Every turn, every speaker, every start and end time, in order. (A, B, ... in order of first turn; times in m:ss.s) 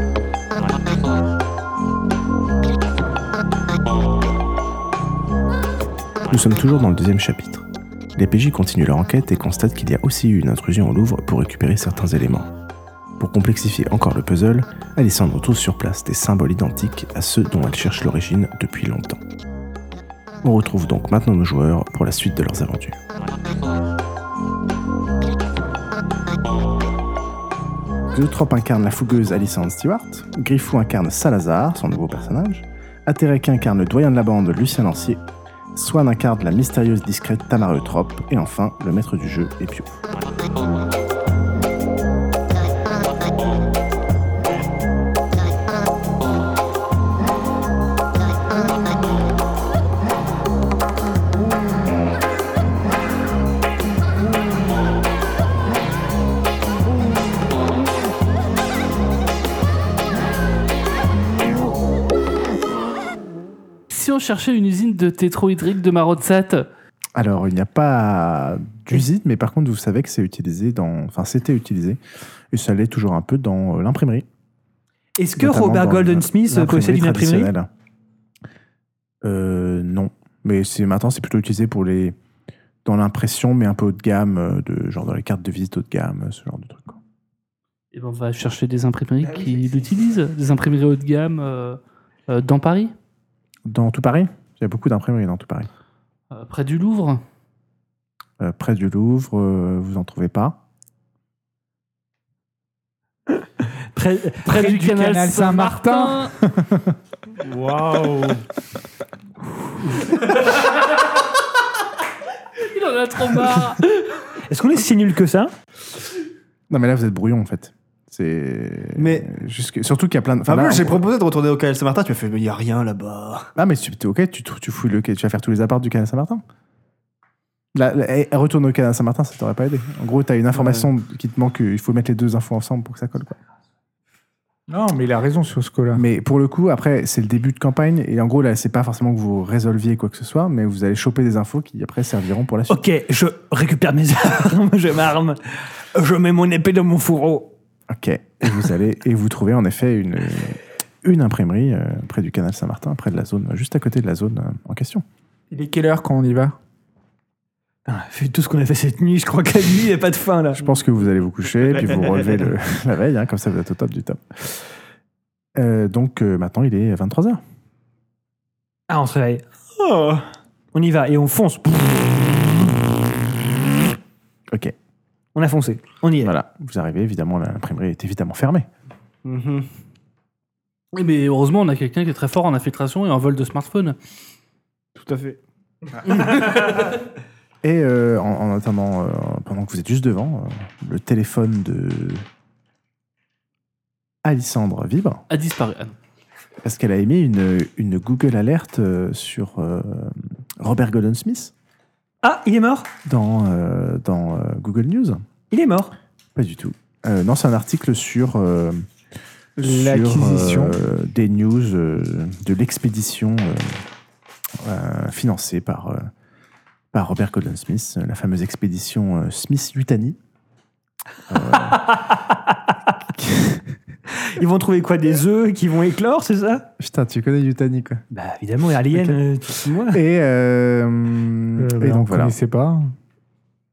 0:06.3-0:12.5 A
0:13.2-0:19.2 A
0:20.4-0:23.0 A
0:28.1-0:35.2 A
0:35.7-0:39.9 A
1:03.9-1:06.7 B
1:07.2-1:12.0 A
1:12.5-1:14.3 A
1:15.2-1:17.5 C
1:15.4-1:17.7 A
1:19.2-1:22.2 A
1:22.8-1:27.0 A
1:27.9-1:32.9 B
1:29.2-1:29.8 C
1:33.7-1:35.7 A
1:36.3-1:37.2 B
1:38.4-1:40.6 A
1:44.0-1:44.8 C
1:44.5-1:46.3 B
1:44.5-1:47.0 D
1:47.4-1:48.4 E
1:49.9-1:50.4 E
1:52.6-1:53.8 B
1:54.3-1:55.5 C
1:56.7-2:01.0 A
1:59.0-1:59.3 E
2:00.5-2:03.5 E
2:03.6-2:06.4 A
2:07.8-2:13.4 A
2:10.6-2:10.9 E
2:14.7-2:16.0 D
2:16.0-2:22.8 A
2:22.7-2:27.5 C
2:27.9-2:35.0 A
2:35.5-2:36.6 D
2:37.9-2:40.6 C
2:40.6-2:44.6 A
2:45.6-2:47.4 A
2:48.9-2:52.9 C
2:54.5-2:54.8 A
2:55.4-2:56.4 C
2:56.2-2:58.7 A
2:59.2-2:59.7 E
3:00.9-3:04.0 B
3:05.0-3:05.4 E
3:07.6-3:12.3 A
3:14.2-3:15.2 A
3:15.3-3:16.0 B
3:16.6-3:21.5 A
3:22.2-3:22.9 C
3:23.1-3:25.2 A
3:25.5-3:26.0 C
3:26.4-3:28.9 A
3:29.6-3:30.8 D
3:29.6-3:33.8 A
3:34.6-3:36.1 A
3:36.9-3:40.2 A
3:41.3-3:42.0 A
3:41.6-3:42.7 C
3:43.1-3:43.7 A
3:44.1-3:46.7 C
3:46.8-3:48.0 A
3:48.1-3:50.0 C
3:49.9-3:52.4 A
3:51.6-3:52.9 D